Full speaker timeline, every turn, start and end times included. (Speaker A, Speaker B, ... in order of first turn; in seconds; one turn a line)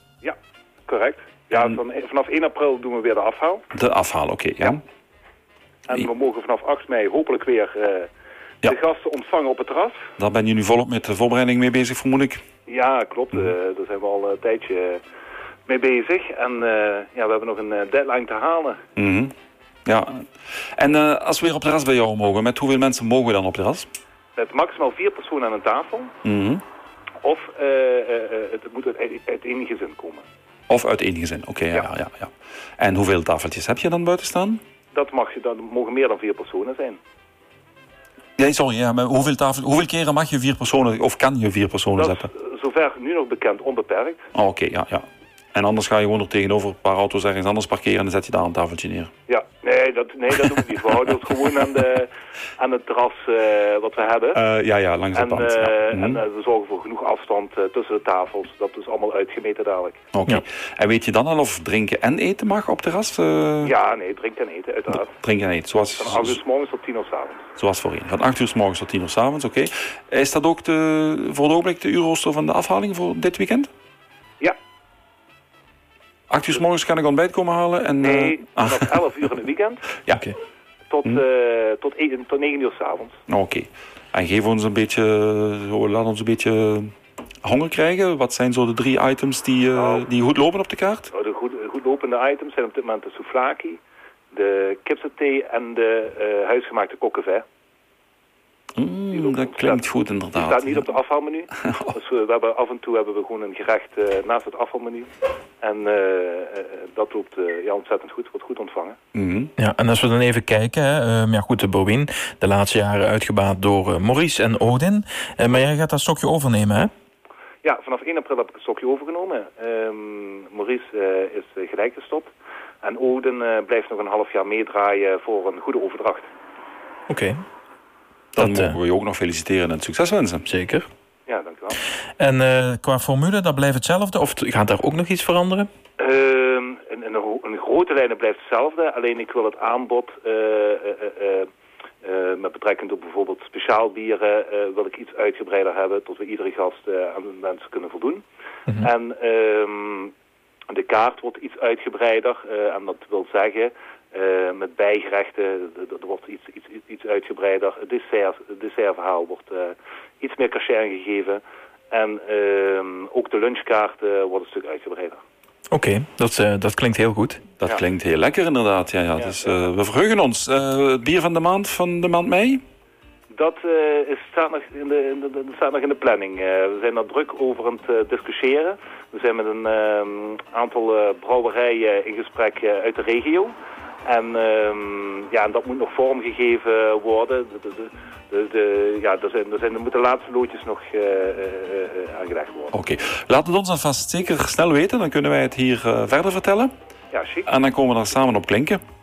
Speaker A: 0.2-3.6
Speaker B: 3.7-4.8
Speaker A: 5.9-8.1
Speaker A: 8.6-10.1
Speaker B: 10.2-12.4
Speaker A: 12.7-15.0
Speaker A: 15.7-18.8
Speaker B: 19.0-19.3
Speaker B: 19.9-20.2
Speaker B: 20.8-23.9
Speaker A: 24.4-26.1
Speaker B: 26.2-26.6
Speaker A: 27.2-30.2
Speaker B: 30.7-34.6
Speaker A: 34.9-37.0
Speaker B: 38.4-42.3
Speaker A: 42.0-44.2
Speaker B: 44.3-49.1
Speaker A: 49.3-54.4
Speaker B: 54.4-56.2
Speaker A: 55.1-60.0
Speaker B: 60.1-63.7
Speaker A: 63.6-65.2
Speaker B: 65.1-66.4
Speaker A: 66.0-67.5
Speaker B: 67.6-73.7
Speaker B: 76.3-78.9
Speaker A: 78.0-79.9
Speaker A: 80.9-83.2
Speaker B: 83.3-86.9
Speaker B: 87.4-91.1
Speaker A: 89.7-90.1
Speaker A: 91.1-93.8
Speaker A: 94.3-97.5
Speaker B: 98.8-100.8
Speaker A: 99.1-105.1
Speaker A: 105.6-109.0
Speaker B: 109.2-109.5
Speaker C: 109.6-116.9
Speaker A: 117.6-126.3
Speaker C: 127.1-127.3
Speaker B: 128.3-130.5
Speaker C: 128.4-128.8
Speaker C: 130.5-130.9
Speaker A: 131.3-131.8
Speaker C: 132.2-135.7
Speaker A: 136.0-141.5
Speaker A: 142.0-150.1
Speaker A: 150.7-165.2
Speaker C: 165.7-167.4
Speaker B: 167.6-172.6
Speaker A: 169.2-169.6
Speaker A: 173.3-192.7
Speaker B: 192.7-196.7
Speaker A: 197.1-197.5
Speaker B: 197.5-198.8